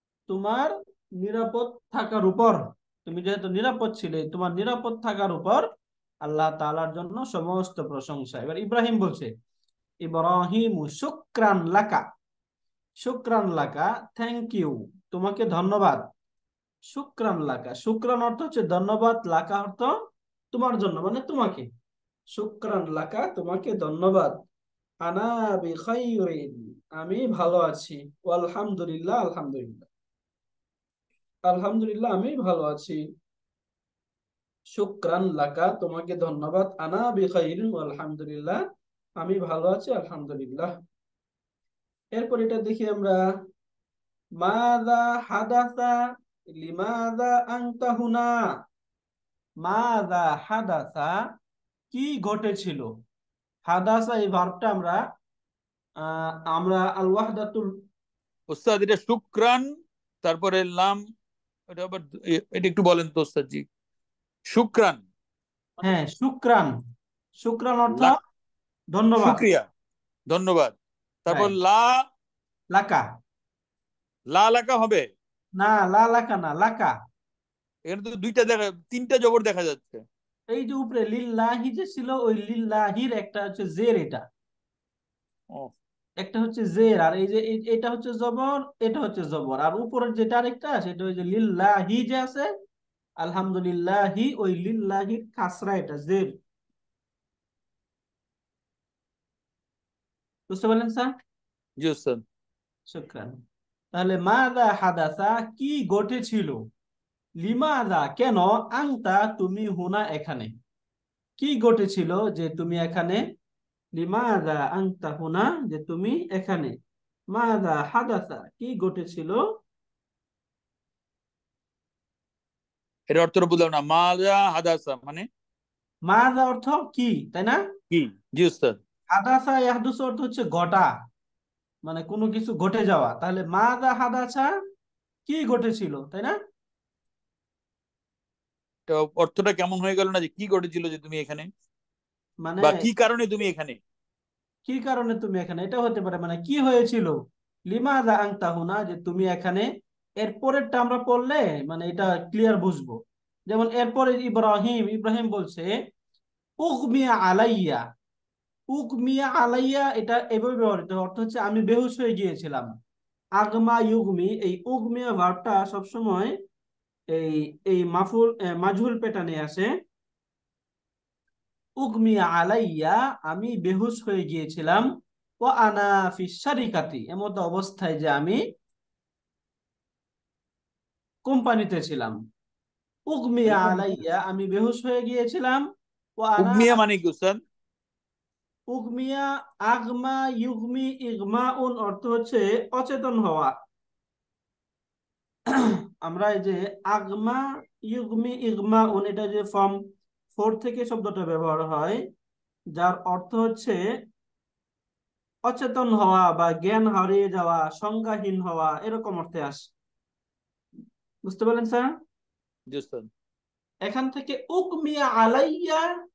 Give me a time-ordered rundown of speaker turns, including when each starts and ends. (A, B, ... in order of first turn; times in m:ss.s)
0:00.3-0:05.6 A
0:06.2-0:09.3 A
0:10.0-0:12.0 A
0:13.0-0:16.0 A
0:16.9-0:19.9 A
0:20.5-0:21.7 A
0:22.3-0:24.4 A
0:25.0-0:29.8 A
0:31.5-0:33.0 A
0:34.7-0:38.6 A
0:39.2-0:40.7 A
0:42.2-0:43.2 A
0:44.4-0:46.0 A
0:46.5-0:48.3 A
0:49.6-0:51.2 A
0:51.9-0:52.9 A
0:53.7-0:55.0 A
0:56.0-0:57.7 A
0:58.5-0:59.7 B
1:00.2-1:01.0 B
1:01.7-1:03.7 B
1:04.5-1:05.0 B
1:05.8-1:06.7 A
1:07.4-1:08.2 A
1:08.9-1:09.4 A
1:09.2-1:09.6 B
1:10.3-1:12.0 B
1:12.7-1:13.0 A
1:14.3-1:15.1 B
1:15.6-1:16.9 A
1:17.9-1:20.0 B
1:20.5-1:24.2 A
1:26.2-1:32.5 A
1:33.2-1:36.3 A
1:40.5-1:41.1 A
1:41.8-1:42.2 B
1:42.9-1:43.4 A
1:43.9-1:46.6 A
1:47.4-1:50.5 A
1:51.4-1:53.2 A
1:53.9-1:56.7 A
1:57.3-1:59.4 A
2:03.1-2:05.3 B
2:06.1-2:07.6 A
2:07.9-2:08.8 B
2:09.1-2:10.9 A
2:11.8-2:14.5 A
2:15.3-2:16.4 A
2:18.9-2:21.5 B
2:22.4-2:22.9 A
2:22.6-2:23.8 B
2:24.6-2:29.7 A
2:30.2-2:35.7 A
2:36.6-2:37.8 A
2:38.7-2:42.7 A
2:43.4-2:46.3 A
2:47.1-2:49.7 A
2:51.8-2:54.9 A
2:55.4-2:58.4 A
3:01.2-3:02.2 A
3:03.1-3:05.6 A
3:06.2-3:06.8 A
3:06.4-3:07.4 B
3:08.7-3:13.5 A
3:15.5-3:19.8 A
3:20.3-3:22.0 A
3:22.7-3:23.8 A
3:25.5-3:29.7 A
3:31.3-3:31.9 A
3:32.7-3:33.1 B
3:33.9-3:35.8 A